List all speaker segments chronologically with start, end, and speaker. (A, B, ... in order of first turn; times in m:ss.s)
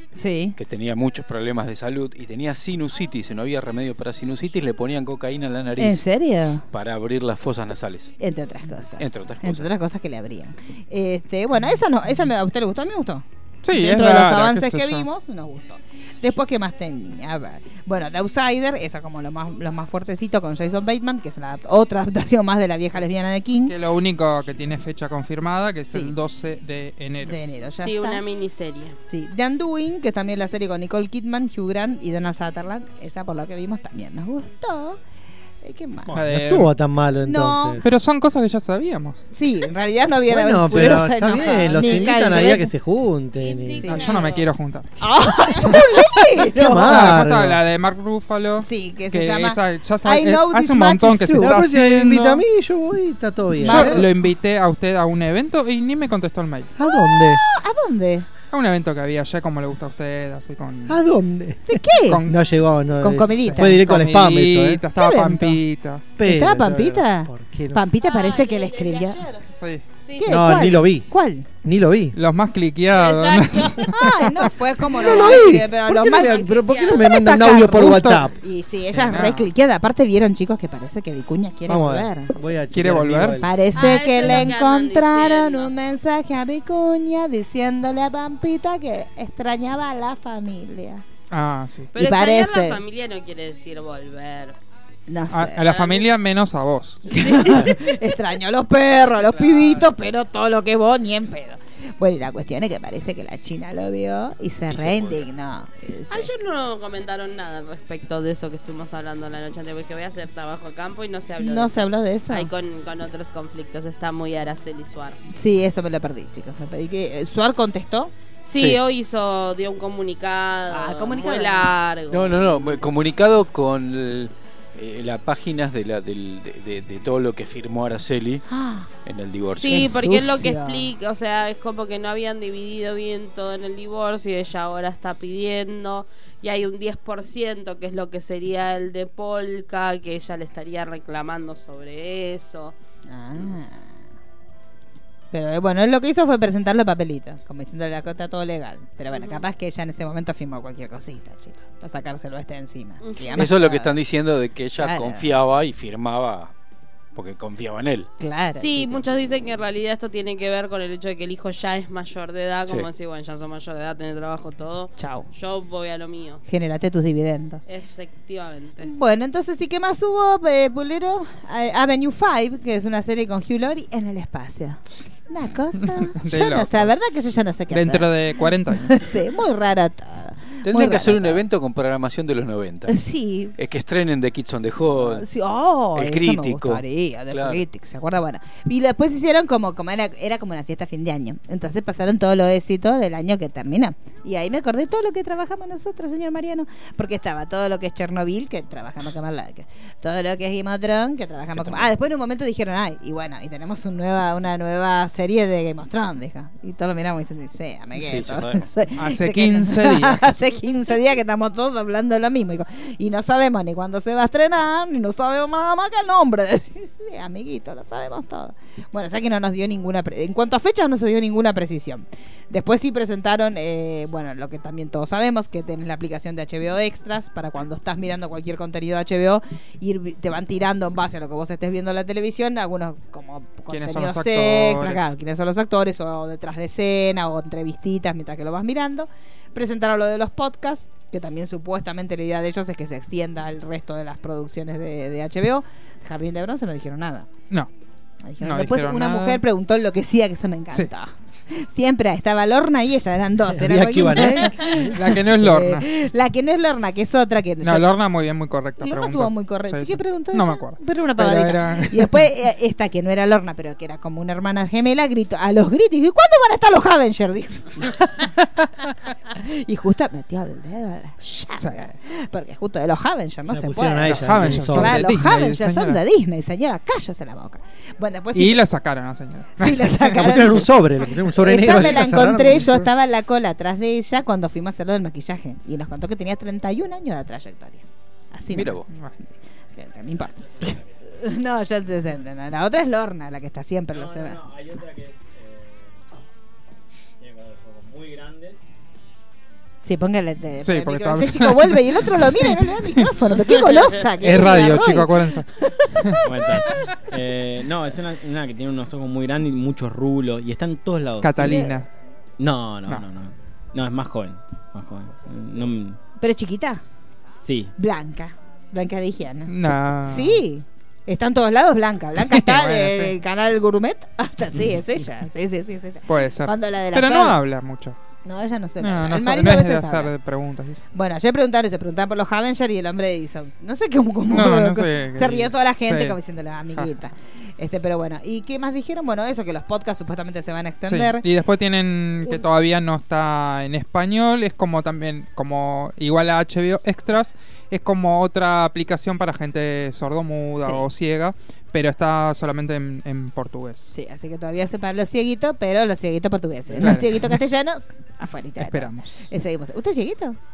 0:00.2-0:00.6 A
0:00.6-0:06.0 B
0:05.8-0:06.6 A
0:06.7-0:08.1 B
0:08.2-0:23.7 A
0:09.0-0:09.7 B
0:13.6-0:15.1 C
0:23.6-0:27.4 C
0:27.2-0:28.2 A
0:27.8-0:29.0 D
0:29.1-0:35.0 A
0:35.6-0:36.1 A
0:36.1-0:37.8 E
0:36.1-0:36.7 C
0:37.2-0:37.8 A
0:37.8-0:39.2 C
0:39.3-0:42.7 A
0:40.3-0:43.9 E
0:41.8-0:42.3 D
0:43.4-0:44.5 D
0:43.8-0:44.2 A
0:43.9-0:45.0 C
0:45.0-0:47.2 A
0:46.4-0:47.6 E
0:46.6-0:52.4 C
0:48.6-0:51.6 A
0:51.3-0:54.1 E
0:53.6-0:54.1 A
0:53.6-0:56.7 C
0:56.8-0:57.4 E
0:56.9-0:58.3 A
0:58.5-1:01.0 C
1:00.9-1:04.8 E
1:01.7-1:02.2 A
1:02.1-1:02.4 C
1:03.0-1:03.8 A
1:03.3-1:06.0 C
1:05.0-1:05.6 A
1:06.2-1:07.8 E
1:06.2-1:09.2 A
1:08.0-1:09.4 D
1:10.0-1:10.3 D
1:10.2-1:11.5 A
1:10.2-1:11.1 E
1:11.6-1:12.2 E
1:12.1-1:14.0 C
1:12.9-1:14.0 D
1:13.8-1:22.3 A
1:14.9-1:18.3 E
1:16.5-1:17.1 D
1:17.6-1:18.3 C
1:18.9-1:19.5 C
1:21.7-1:23.6 E
1:22.7-1:23.4 C
1:23.4-1:31.0 A
1:23.7-1:25.7 D
1:31.3-1:31.9 C
1:31.9-1:34.6 D
1:31.9-1:32.8 A
1:35.1-1:35.7 A
1:35.3-1:37.0 C
1:35.6-1:36.1 D
1:37.1-1:46.3 A
1:37.1-1:37.8 D
1:39.5-1:39.8 C
1:44.7-1:45.3 B
1:46.1-1:55.2 D
1:51.4-1:52.5 A
1:55.3-1:58.1 A
1:58.5-2:02.7 D
2:00.7-2:01.7 A
2:02.1-2:08.4 B
2:08.5-2:08.9 A
2:09.0-2:09.9 B
2:09.6-2:22.7 D
2:09.6-2:10.9 A
2:23.1-2:23.8 A
2:25.3-2:34.0 A
2:29.1-2:29.4 D
2:33.0-2:33.4 D
2:33.3-2:36.5 B
2:34.8-2:35.3 A
2:37.1-2:38.1 B
2:38.2-2:39.0 A
2:38.6-2:46.4 D
2:45.0-2:45.3 A
2:46.5-2:47.6 A
2:47.7-2:48.9 D
2:48.8-2:58.1 A
2:55.9-2:56.9 C
2:57.7-2:59.1 C
2:58.8-3:01.4 A
3:00.6-3:03.0 B
3:02.9-3:03.5 A
3:03.6-3:05.2 B
3:05.0-4:07.3 A
3:05.9-3:07.6 B
3:21.5-3:21.9 B
3:28.0-3:28.7 B
3:29.0-3:30.3 C
3:53.7-3:55.1 C
4:08.2-4:17.9 A
4:08.4-4:09.4 C
4:13.4-4:15.0 E
4:14.7-4:15.8 C
4:17.6-4:22.2 C
4:18.8-4:38.6 A
4:31.6-4:31.9 C
4:33.5-4:35.1 E
4:34.0-4:36.0 C
4:38.3-4:40.4 C
4:39.6-4:40.7 A
4:40.1-4:42.9 E
4:41.3-4:48.8 A
4:41.6-4:42.0 C
4:48.5-4:48.9 B
4:49.8-4:54.4 A
4:50.4-4:50.8 F
4:53.9-4:56.0 F
4:57.2-4:58.6 F
4:59.8-5:06.9 A
5:00.6-5:06.2 C
5:06.2-5:11.8 F
5:11.2-5:11.8 C
5:12.4-5:16.0 F
5:16.2-5:16.8 A
5:17.3-5:17.7 F
5:17.8-5:19.5 A
5:19.5-5:20.4 C
5:20.0-5:27.4 A
5:22.2-5:23.1 C
5:26.1-5:28.0 C
5:28.2-5:30.1 A
5:28.8-5:30.8 C
5:30.9-5:41.2 A
5:34.3-5:36.2 C
5:40.9-5:53.9 C
5:50.6-5:50.8 A
5:53.9-6:00.4 A
5:56.7-5:57.0 E
5:56.8-5:57.4 C
5:58.6-5:59.2 C